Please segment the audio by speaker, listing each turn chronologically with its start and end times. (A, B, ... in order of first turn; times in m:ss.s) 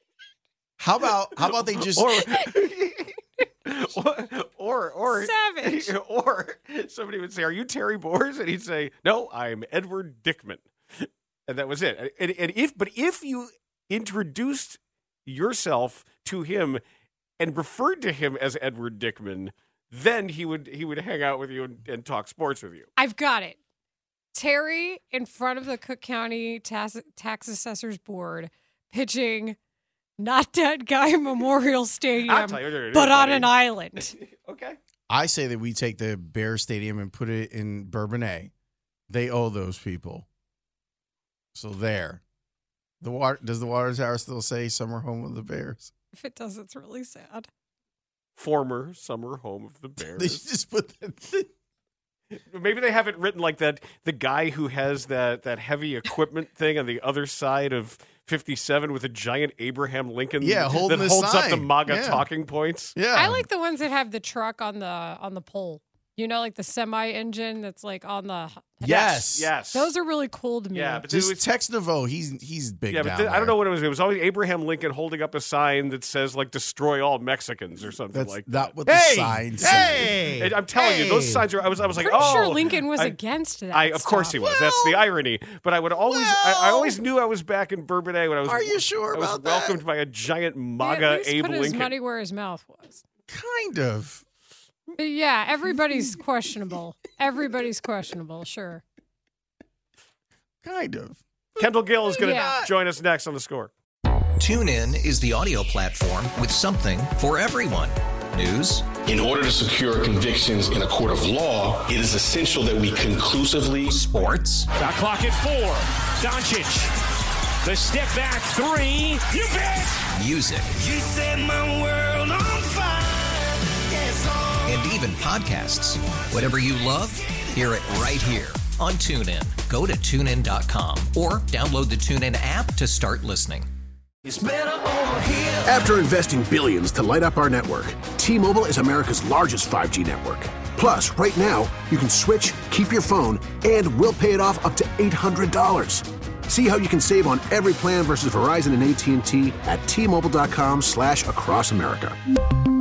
0:00.8-0:02.4 A
0:01.4-0:16.8 B
0:05.1-0:05.9 C
0:17.4-0:22.9 B
0:23.0-0:23.6 C
0:24.3-0:29.6 C
0:30.2-0:34.1 C
0:32.2-0:34.8 B
0:35.1-0:38.5 A
0:39.1-0:40.2 A
0:41.5-0:42.2 A
0:43.0-0:45.9 A
0:46.1-0:47.5 C
0:48.4-0:50.4 B
0:50.1-0:51.5 A
0:52.3-1:03.0 B
1:00.4-1:02.2 A
1:02.9-1:03.4 A
1:03.1-1:11.0 C
1:08.8-1:09.5 A
1:09.2-1:09.9 B
1:10.7-1:11.4 B
1:11.1-1:13.6 A
1:12.9-1:23.2 B
1:18.1-1:21.4 A
1:22.0-1:24.4 C
1:23.7-1:31.9 B
1:24.4-1:25.0 A
1:26.1-1:27.0 A
1:28.4-1:29.8 A
1:30.8-1:33.0 C
1:33.3-1:34.2 A
1:35.0-1:38.8 C
1:40.6-1:42.7 A
1:41.6-1:43.7 B
1:42.2-1:42.6 C
1:44.4-1:48.9 D
1:49.0-1:54.0 E
1:53.9-1:54.7 D
1:54.7-1:56.9 F
1:57.6-1:59.9 F
2:00.1-2:00.7 D
2:00.7-2:04.8 G
2:04.6-2:13.7 D
2:14.2-2:15.7 G
2:15.6-2:32.2 H